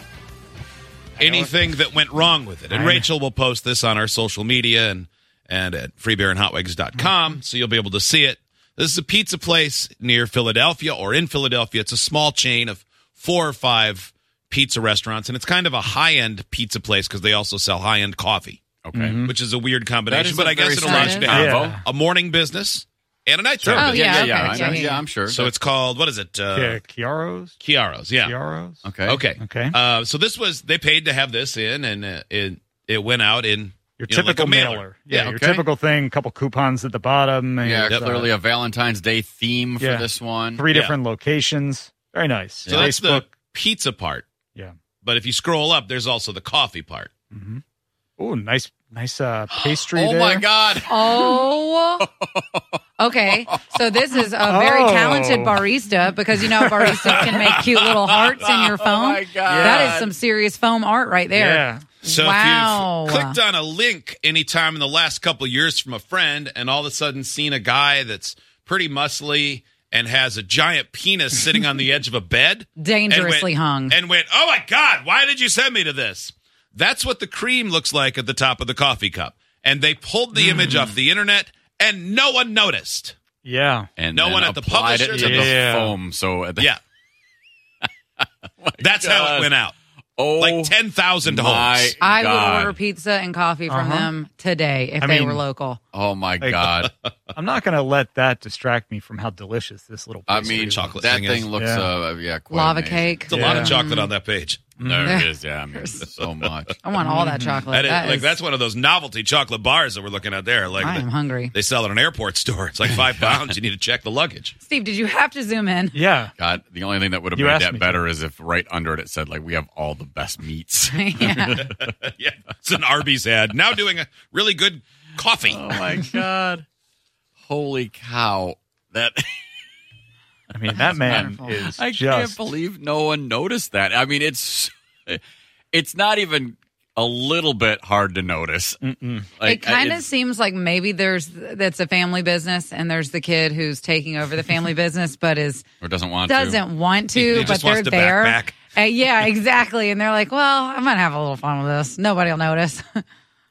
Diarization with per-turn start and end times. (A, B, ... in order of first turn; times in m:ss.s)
0:01.2-0:01.6 A
0:01.2-0:18.6 B
0:02.7-0:03.1 A
0:18.8-0:19.2 C
0:18.9-0:19.3 A
0:19.2-0:24.6 B
0:20.1-0:21.8 C
0:20.8-0:21.5 D
0:21.0-0:21.8 A
0:23.6-0:24.9 A
0:23.7-0:25.0 D
0:23.8-0:25.5 C
0:25.2-0:26.8 B
0:26.5-0:27.6 A
0:27.6-0:28.3 B
0:28.2-0:29.8 A
0:28.8-0:29.3 C
0:29.0-0:35.3 B
0:34.0-0:38.3 A
0:35.2-0:35.6 C
0:37.6-0:40.7 C
0:39.8-0:43.4 A
0:42.6-0:43.0 C
0:42.7-0:44.3 B
0:45.0-0:47.1 B
0:47.3-0:47.6 A
0:48.2-0:50.5 A
0:49.5-0:51.4 C
0:50.8-0:52.1 D
0:52.1-0:52.8 C
0:53.0-1:03.4 D
0:53.3-0:53.8 C
0:54.4-0:55.6 A
0:56.4-0:57.3 A
0:57.1-1:00.1 C
0:59.4-1:00.0 A
1:01.3-1:01.8 A
1:02.0-1:23.1 B
1:12.8-1:14.0 D
1:23.4-1:23.9 A
1:24.0-1:26.7 C
1:24.1-1:25.5 B
1:25.1-1:26.0 A
1:28.2-1:29.5 C
1:28.8-1:29.7 B
1:30.2-1:32.8 C
1:30.4-1:32.0 B
1:32.0-1:35.8 D
1:33.7-1:34.1 A
1:35.0-1:35.4 A
1:35.9-1:36.9 C
1:36.4-1:36.7 A
1:36.8-1:37.1 B
1:37.3-1:41.0 A
1:40.3-1:43.2 C
1:40.5-1:41.5 B
1:41.6-1:41.9 A
1:42.5-1:44.1 D
1:43.3-1:43.8 A
1:43.3-1:44.8 B
1:44.8-1:45.2 A
1:44.8-1:46.8 C
1:45.0-1:46.1 D
1:46.8-1:48.4 D
1:47.0-1:47.6 A
1:47.7-1:54.5 B
1:50.8-1:51.5 D
1:53.2-1:53.5 C
1:54.6-1:56.0 D
1:55.9-1:56.3 A
1:56.4-2:01.7 C
1:57.3-1:58.0 A
2:00.9-2:01.7 D
2:01.7-2:06.0 B
2:05.4-2:06.6 C
2:07.4-2:09.4 C
2:10.5-2:12.4 A
2:10.7-2:15.2 C
2:10.7-2:11.7 D
2:15.7-2:20.1 C
2:18.8-2:19.3 A
2:19.4-2:25.6 D
2:25.8-2:26.6 C
2:26.2-2:33.0 D
2:27.1-2:28.6 B